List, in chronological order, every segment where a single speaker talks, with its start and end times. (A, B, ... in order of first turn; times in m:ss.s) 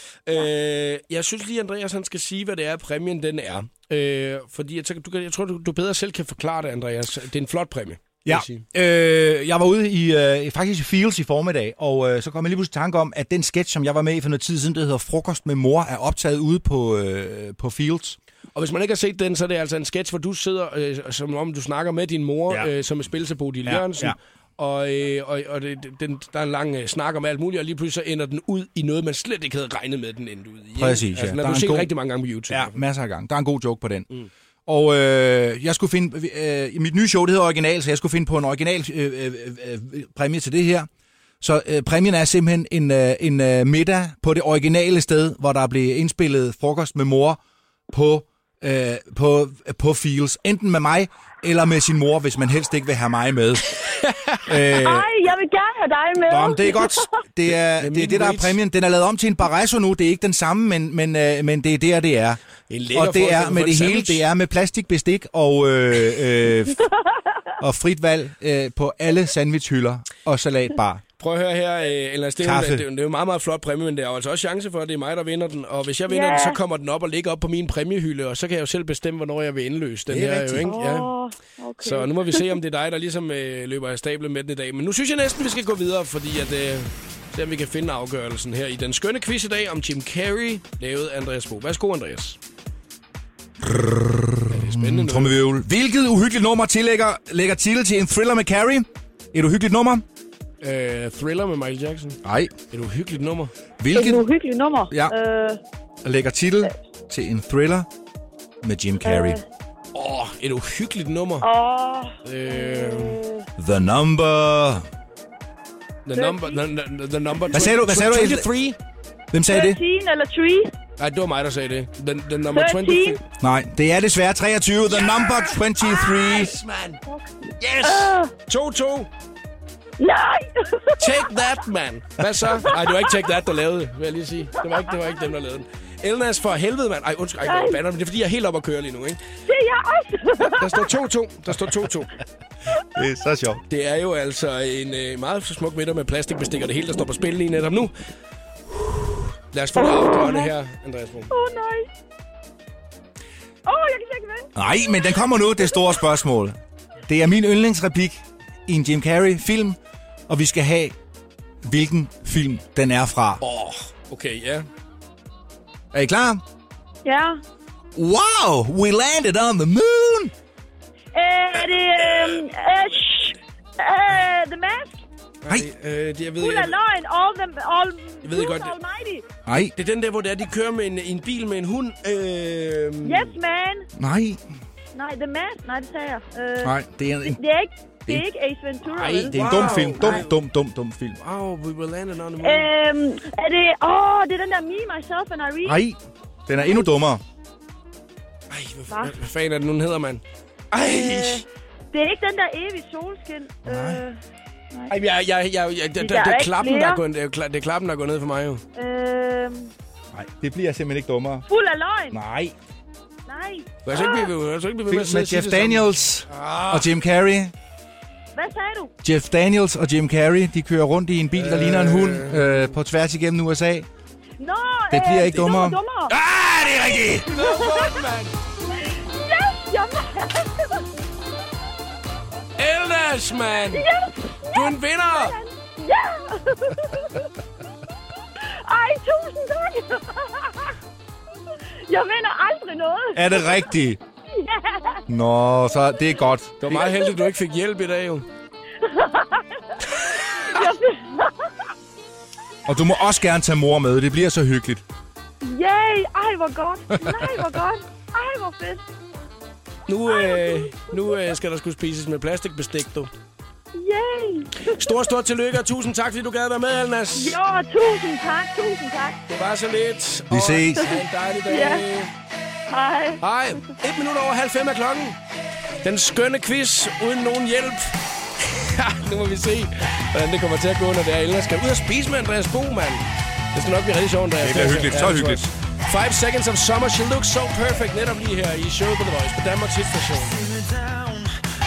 0:00.3-0:08.6 A
0:08.2-0:18.2 B
0:18.6-0:32.8 A
0:23.6-0:24.2 B
0:30.8-0:31.9 B
0:32.5-0:34.1 B
0:34.7-0:40.9 B
0:41.4-0:53.9 B
0:53.9-0:54.4 A
0:54.5-0:55.1 B
0:54.7-0:57.1 C
0:56.2-1:02.4 B
0:57.8-0:58.6 A
1:02.7-1:04.2 A
1:02.9-1:06.8 B
1:07.6-1:11.0 B
1:11.2-1:21.1 A
1:12.4-1:12.8 B
1:16.1-1:16.6 C
1:20.1-1:20.7 B
1:20.6-1:22.6 C
1:21.8-1:32.4 A
1:33.6-1:40.0 B
1:34.5-1:35.4 A
1:40.6-1:42.2 A
1:42.2-1:42.5 B
1:42.7-1:43.6 A
1:43.8-1:44.3 B
1:43.9-1:45.6 C
1:44.9-1:45.2 B
1:46.0-1:47.9 B
1:48.6-1:49.4 B
1:49.0-1:49.4 C
1:50.0-1:51.5 A
1:51.4-1:53.4 C
1:52.2-1:53.2 A
1:53.6-1:54.9 B
1:56.1-1:58.8 A
1:56.1-1:56.6 C
1:57.5-1:58.5 B
1:59.3-1:59.8 B
1:59.5-2:00.7 C
2:01.0-2:03.2 A
2:02.5-2:03.2 C
2:03.4-2:06.6 B
2:05.0-2:07.0 A
2:07.1-2:08.3 C
2:07.6-2:09.1 A
2:10.0-2:11.4 C
2:11.0-2:19.2 A
2:12.6-2:13.2 C
2:17.4-2:17.8 C
2:19.5-2:20.9 C
2:20.4-2:22.2 A
2:22.9-2:23.6 B
2:23.7-2:27.9 A
2:29.5-2:31.3 A
2:29.8-2:30.5 C
2:31.3-2:31.9 C
2:33.7-2:34.5 C
2:34.6-2:41.0 B
2:35.6-2:35.9 C
2:41.6-2:43.4 B
2:43.4-2:44.7 A
2:45.9-2:46.4 B
2:47.0-2:47.4 C
2:48.0-2:50.3 B
2:51.1-2:55.0 C
2:55.4-2:56.8 A
2:56.4-2:59.2 C
2:58.2-2:58.8 A
2:59.5-2:59.7 B
2:59.7-3:03.4 A
3:03.0-3:03.9 C
3:04.0-3:04.4 B
3:05.0-3:10.2 C
3:06.6-3:07.4 B
3:08.8-3:11.2 B
3:09.3-3:10.3 A
3:11.2-3:12.7 A
3:12.4-3:15.8 C
3:15.6-3:17.2 B
3:16.6-3:16.9 C
3:18.5-3:21.4 A
3:18.9-3:19.2 C
3:20.8-3:24.2 C
3:23.6-3:24.1 B
3:24.9-3:28.6 A
3:26.0-3:27.0 C
3:28.8-3:29.7 C
3:30.1-3:31.5 B
3:31.5-3:32.2 C
3:32.1-3:32.5 B
3:33.3-3:34.3 C
3:33.8-3:36.9 A
3:34.9-3:37.5 B
3:38.4-3:38.9 C
3:39.0-3:43.9 B
3:41.4-3:42.5 A
3:44.4-3:46.1 C
3:44.9-3:47.3 B
3:47.3-3:48.3 A
3:47.3-3:48.0 C
3:48.8-3:50.8 C
3:52.6-3:53.9 A
3:53.7-3:57.3 C
3:54.5-3:55.4 A
3:58.4-4:00.8 C
4:01.9-4:03.6 C
4:03.1-4:04.0 B
4:04.3-4:05.0 C
4:05.1-4:06.9 B
4:06.6-4:08.3 A
4:06.9-4:07.2 C
4:08.8-4:11.5 C
4:12.7-4:14.8 B
4:15.4-4:18.8 C
4:19.9-4:23.1 A
4:20.1-4:21.3 C
4:23.8-4:25.0 C
4:24.7-4:27.4 A
4:27.2-4:29.2 C
4:29.3-4:32.1 A
4:30.3-4:30.9 B
4:30.9-4:31.9 C
4:32.7-4:33.2 C
4:33.2-4:35.2 A
4:35.8-4:50.8 A
4:44.4-4:45.5 B